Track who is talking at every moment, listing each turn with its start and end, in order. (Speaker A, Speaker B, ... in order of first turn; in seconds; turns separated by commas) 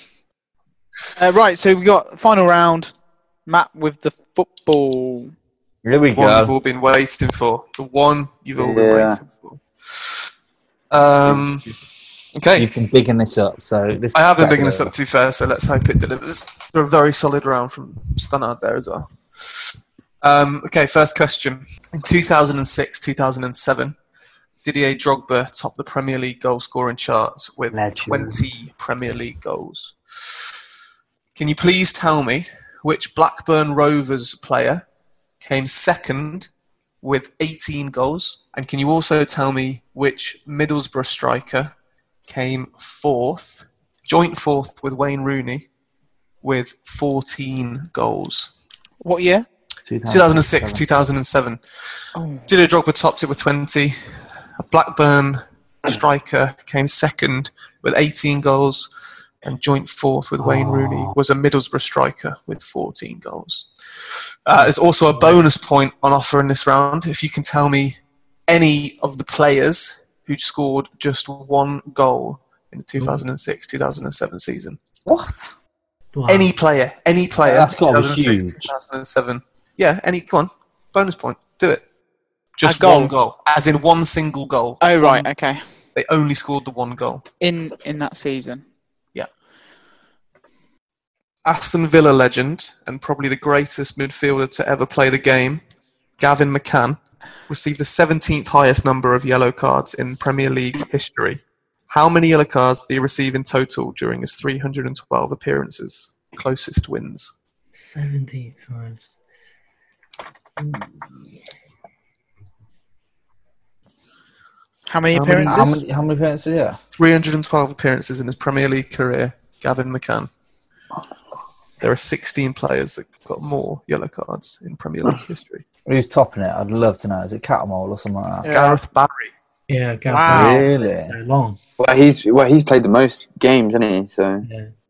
Speaker A: 1.1-2.9, Speaker A: 3.5-5.3, Speaker B: 5.8-6.5, Speaker C: 6.2-10.3, Speaker D: 8.6-9.2, Speaker C: 10.9-11.8, Speaker C: 12.3-12.7, Speaker B: 12.5-14.9, Speaker C: 14.1-23.9, Speaker C: 24.6-30.6, Speaker B: 27.7-28.4, Speaker C: 31.3-34.8, Speaker C: 35.4-36.5, Speaker C: 37.0-41.7, Speaker C: 42.3-45.7, Speaker C: 46.4-48.5, Speaker A: 49.0-49.5, Speaker B: 49.9-50.8, Speaker C: 50.1-51.6, Speaker A: 52.1-52.5, Speaker C: 52.5-58.9, Speaker C: 59.4-74.8, Speaker B: 60.4-61.1, Speaker B: 75.1-75.5, Speaker E: 76.1-76.5, Speaker C: 76.3-81.8, Speaker B: 77.4-78.7, Speaker C: 82.6-85.3, Speaker A: 82.6-83.1, Speaker A: 84.8-85.6, Speaker C: 85.9-87.2, Speaker A: 87.4-88.6, Speaker C: 91.4-95.6, Speaker C: 96.2-107.3, Speaker E: 107.7-109.1, Speaker A: 114.9-115.8, Speaker C: 115.1-115.6, Speaker B: 115.5-116.8, Speaker C: 116.9-120.3, Speaker C: 121.8-125.6, Speaker B: 125.8-128.5, Speaker A: 128.4-128.8, Speaker C: 128.5-129.3, Speaker E: 129.7-131.6, Speaker A: 130.1-130.6, Speaker B: 130.3-131.1, Speaker D: 131.8-134.4, Speaker E: 134.4-134.7